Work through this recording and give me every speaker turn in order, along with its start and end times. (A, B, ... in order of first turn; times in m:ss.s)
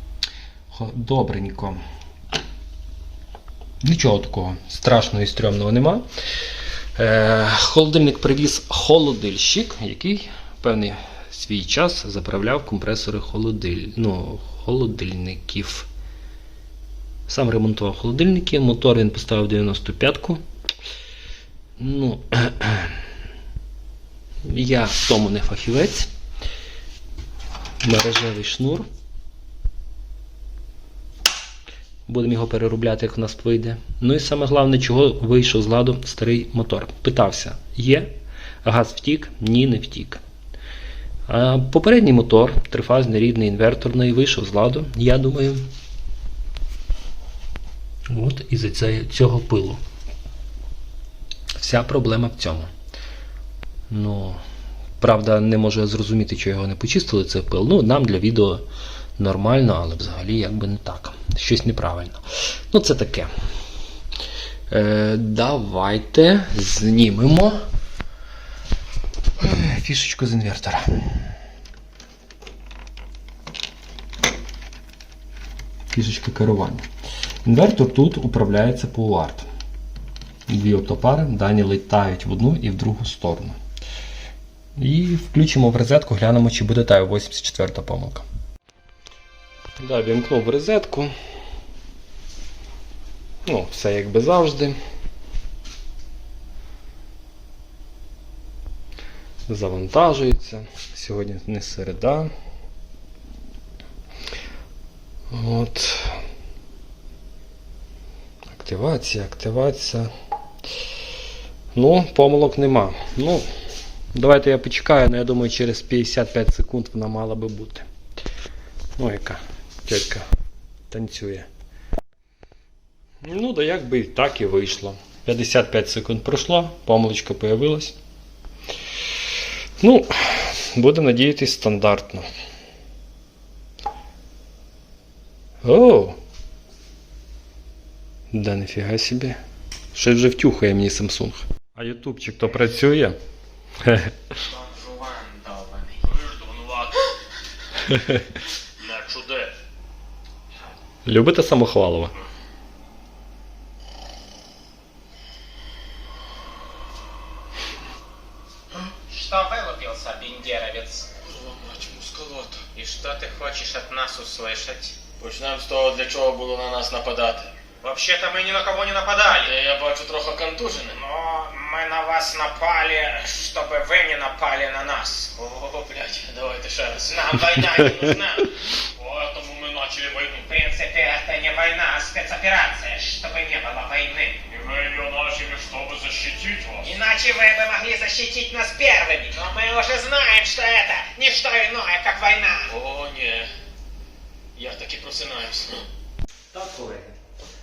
0:00.7-0:01.8 A
0:03.8-0:06.0 A
0:07.0-0:15.9 A
0:17.3-0:20.4 A
0:21.8-0:23.0 A
0:24.4-0:26.1 A
0:27.8-0:28.8 A
0:32.1-0:38.1 A
0:38.6-0:40.2 A
0:41.3-0:45.7 A
0:48.1-0:49.8 A
0:51.5-0:52.7 A
0:53.9-0:54.4 A
0:55.0-0:58.6 A
0:59.2-1:02.2 A
1:02.7-1:03.3 A
1:04.7-1:07.6 A
1:09.4-1:11.2 A
1:15.9-1:16.8 A
1:17.4-1:19.5 A
1:20.5-1:23.6 A
1:24.8-1:28.2 A
1:29.8-1:31.1 A
1:33.4-1:34.8 A
1:39.5-1:42.3 A
1:45.3-1:46.2 A
1:48.5-1:50.1 A
1:51.7-1:53.4 A
1:54.1-1:57.8 A
1:59.0-2:00.2 A
2:00.9-2:01.5 A
2:03.2-2:08.0 A
2:09.8-2:12.2 A
2:15.6-2:16.2 A
2:18.3-2:19.4 A
2:19.9-2:23.2 A
2:23.8-2:24.1 A
2:24.5-2:26.0 B
2:26.0-2:27.1 C
2:28.8-2:29.5 C
2:31.0-2:32.1 A
2:39.1-2:41.1 B
2:41.2-2:42.7 C
2:42.7-2:45.0 B
2:45.2-2:47.5 C
2:47.8-2:49.5 B
2:49.4-2:51.0 C
2:50.9-2:55.4 B
2:55.4-2:57.6 C
2:57.1-2:58.5 B
2:59.0-3:00.4 C
3:00.4-3:04.4 B
3:04.5-3:07.0 C
3:06.8-3:12.7 B
3:12.7-3:13.5 C
3:14.5-3:15.8 C
3:16.5-3:17.2 A